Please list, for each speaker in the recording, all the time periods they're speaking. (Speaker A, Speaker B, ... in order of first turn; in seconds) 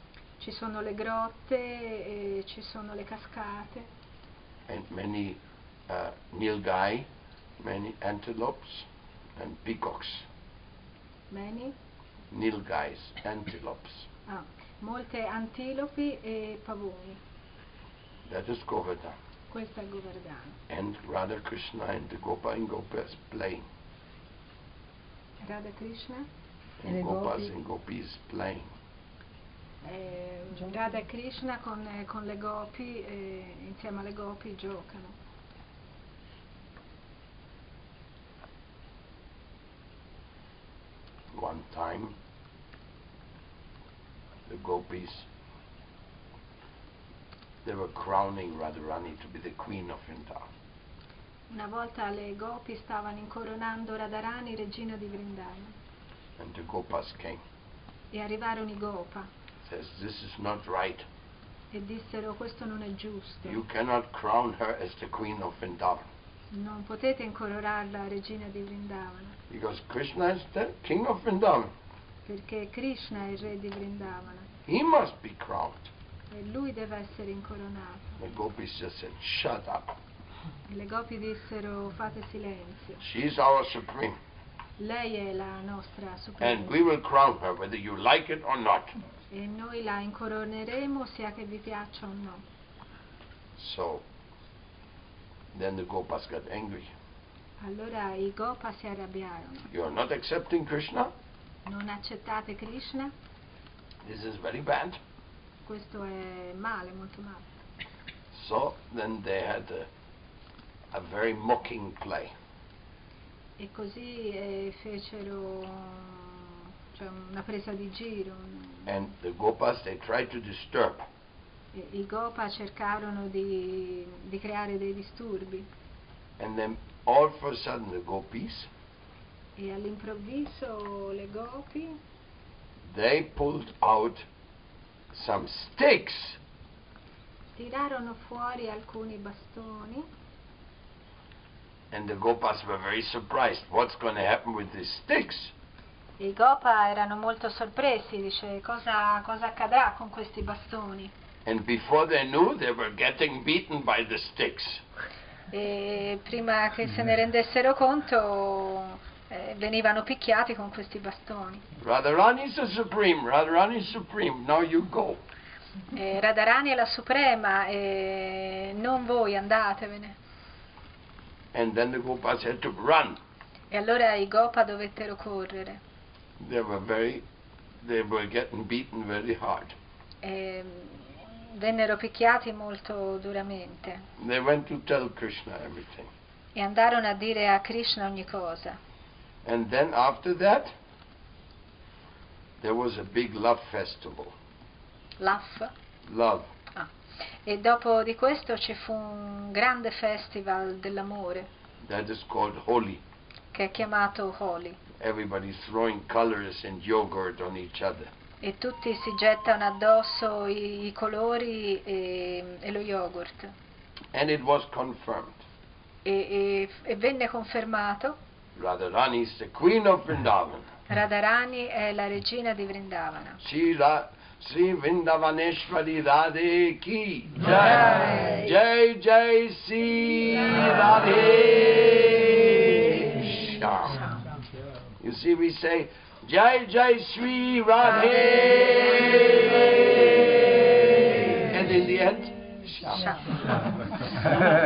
Speaker A: 0.4-3.9, 11.3-11.8, 14.3-17.2, 19.5-20.6, 25.4-26.3, 29.8-35.2, 51.5-55.7, 58.1-59.3, 61.7-63.6, 66.5-69.3, 72.3-74.5, 76.3-78.2, 80.7-83.0, 84.8-86.8, 89.3-92.4, 97.6-99.7, 101.7-103.1, 105.7-107.5, 113.6-118.9, 121.7-125.7, 129.6-132.0, 137.6-140.1, 146.2-151.1, 155.5-161.6, 165.9-170.2, 173.7-175.8, 180.2-184.1, 186.6-188.8, 195.2-195.7, 197.4-201.5, 203.5-204.8, 208.4-213.5, 216.1-218.2, 220.9-223.4, 227.5-228.5, 232.6-233.3, 242.9-243.5
Speaker B: 4.7-7.1, 7.6-10.3, 12.3-14.1, 18.3-19.2, 20.7-23.6, 26.8-28.7, 41.3-42.1, 44.5-45.3, 47.6-50.5, 56.4-57.4, 59.6-61.1, 63.5-66.1, 69.5-71.7, 74.7-75.9, 78.2-80.0, 83.0-84.2, 86.4-89.0, 93.6-94.0, 95.5-96.9, 99.7-101.1, 104.0-105.0, 108.3-109.9, 110.9-112.3, 118.9-121.1, 126.4-128.7, 132.8-134.3, 135.1-136.4, 141.9-145.5, 151.5-154.8, 161.8-165.2, 171.5-173.2, 176.4-177.2, 177.8-179.8, 184.2-186.1, 189.4-190.7, 192.6-194.3, 196.1-196.5, 201.8-203.0, 205.0-208.1, 214.1-215.4, 218.6-220.7, 223.4-234.1, 235.0-240.4, 241.0-243.2